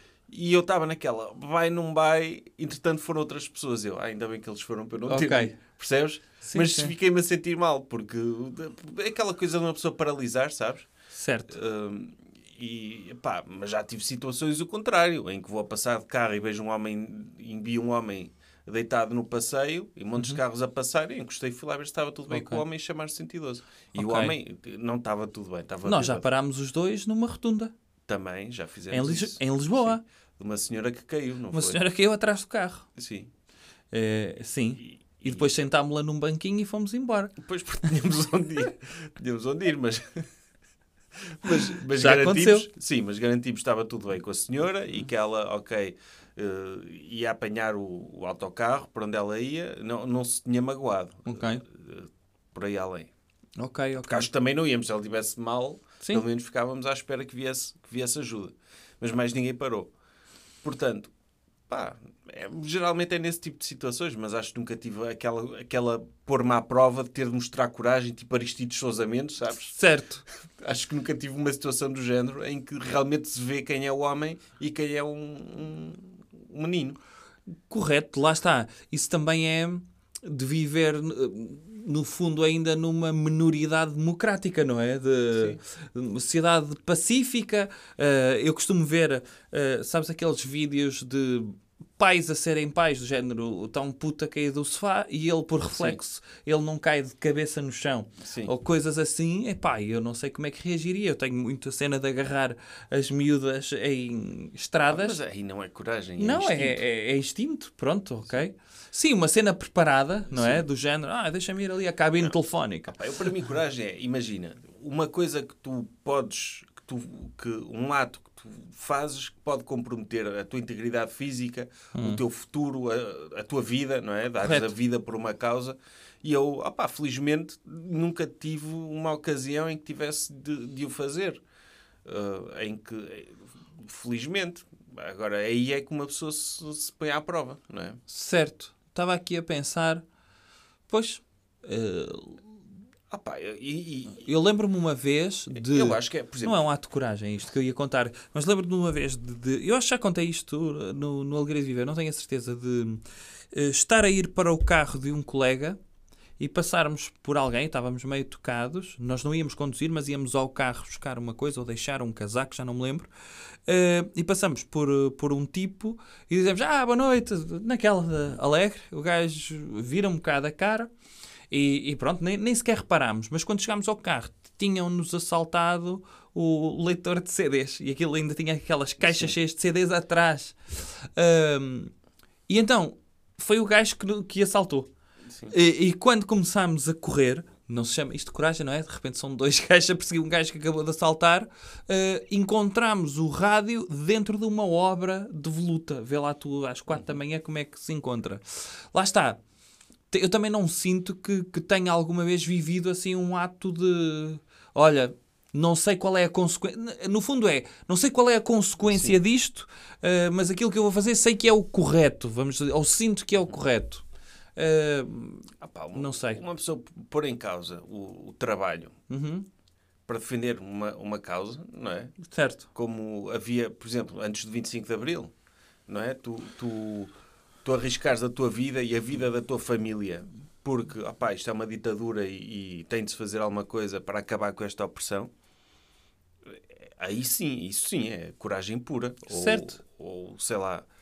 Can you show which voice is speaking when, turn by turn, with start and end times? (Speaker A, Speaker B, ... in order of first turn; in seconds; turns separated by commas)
Speaker A: 0.3-10.9, Speaker B: 5.1-5.6, Speaker B: 6.4-6.9, Speaker B: 11.1-11.5, Speaker A: 11.5-26.3, Speaker B: 22.3-22.6, Speaker B: 23.9-24.4, Speaker B: 25.8-27.7, Speaker A: 28.1-31.8, Speaker B: 28.9-30.0, Speaker B: 31.5-32.9, Speaker A: 33.0-33.3, Speaker B: 33.9-37.4, Speaker A: 35.2-35.5, Speaker A: 37.4-40.2, Speaker A: 41.4-53.1, Speaker B: 41.8-42.7, Speaker B: 51.3-51.6, Speaker B: 53.6-54.3, Speaker A: 54.0-59.9, Speaker A: 60.6-61.1, Speaker A: 61.7-69.8, Speaker B: 69.7-70.2, Speaker A: 70.6-77.0, Speaker B: 77.7-105.2, Speaker A: 85.3-85.6, Speaker A: 95.7-96.0, Speaker A: 98.2-98.5, Speaker A: 104.9-106.8, Speaker B: 106.2-113.0, Speaker A: 110.3-110.7, Speaker A: 112.9-131.4, Speaker B: 122.0-122.2, Speaker B: 124.4-124.7, Speaker A: 132.1-138.0, Speaker B: 138.1-140.0, Speaker B: 140.9-142.4, Speaker A: 143.1-144.2, Speaker B: 144.2-155.8, Speaker A: 145.5-146.6, Speaker B: 156.4-163.1, Speaker B: 163.7-170.9, Speaker B: 171.5-180.6, Speaker A: 179.0-179.3, Speaker B: 181.2-181.9, Speaker B: 182.5-184.9, Speaker B: 185.5-198.4, Speaker B: 198.9-199.4, Speaker B: 200.1-214.0, Speaker A: 208.8-209.2, Speaker B: 214.6-216.4, Speaker A: 215.6-218.9, Speaker B: 219.1-219.5, Speaker A: 220.1-222.2, Speaker B: 222.2-222.7, Speaker A: 222.7-225.3, Speaker A: 225.9-227.1, Speaker A: 227.6-235.3, Speaker A: 236.8-240.9, Speaker B: 239.3-239.8